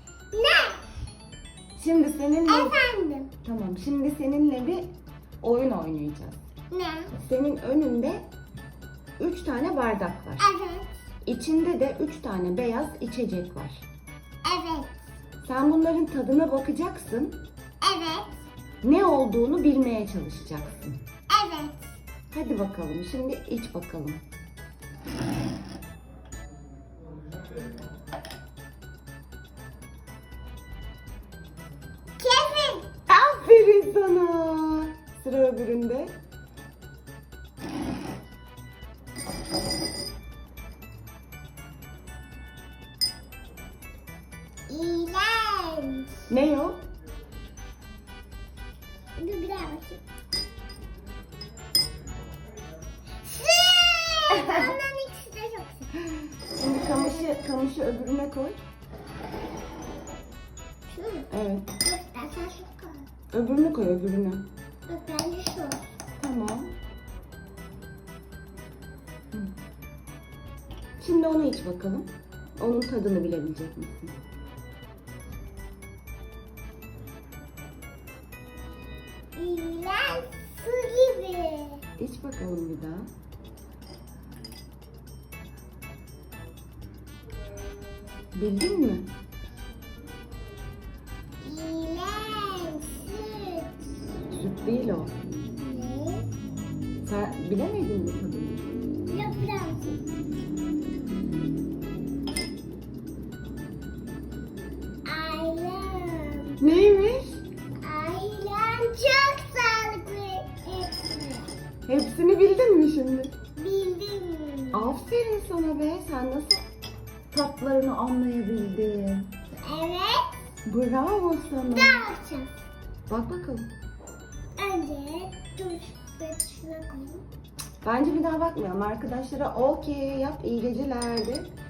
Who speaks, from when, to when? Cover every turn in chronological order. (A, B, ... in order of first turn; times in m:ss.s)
0:00.3-0:00.9 A
0:01.8-0:02.8 B
0:02.5-0:03.3 A
0:03.4-0:04.9 B
0:05.4-0:06.4 B
0:06.7-0:07.1 A
0:07.2-0:08.3 B
0:09.2-0:10.5 B
0:10.4-0:10.9 A
0:11.2-0:13.8 B
0:14.4-0:15.0 A
0:15.4-0:17.4 B
0:17.8-0:18.4 A
0:18.8-0:21.0 B
0:21.3-0:21.9 A
0:22.3-0:24.2 B
0:32.2-0:32.9 A
0:33.1-0:36.1 B
0:44.7-0:46.3 A
0:46.3-0:46.8 B
0:49.2-0:50.0 A
0:53.2-0:55.9 A
0:56.5-0:58.6 B
0:56.9-0:57.4 A
1:00.9-1:03.1 A
1:01.3-1:01.7 B
1:03.3-1:04.4 B
1:04.9-1:05.9 A
1:06.2-1:06.8 B
1:11.0-1:14.2 B
1:19.4-1:21.8 A
1:22.0-1:23.1 B
1:28.3-1:29.1 B
1:31.4-1:34.0 A
1:34.3-1:35.1 B
1:35.6-1:36.3 A
1:37.0-1:38.7 B
1:39.1-1:40.0 A
1:45.0-1:46.6 A
1:46.6-1:47.4 B
1:47.8-1:51.5 A
1:51.9-1:53.3 B
1:53.6-1:55.0 A
1:54.7-1:56.6 B
1:57.3-1:59.3 B
1:59.6-2:00.4 A
2:00.7-2:02.0 B
2:01.7-2:02.6 A
2:03.1-2:03.7 B
2:04.6-2:07.2 A
2:07.8-2:11.5 B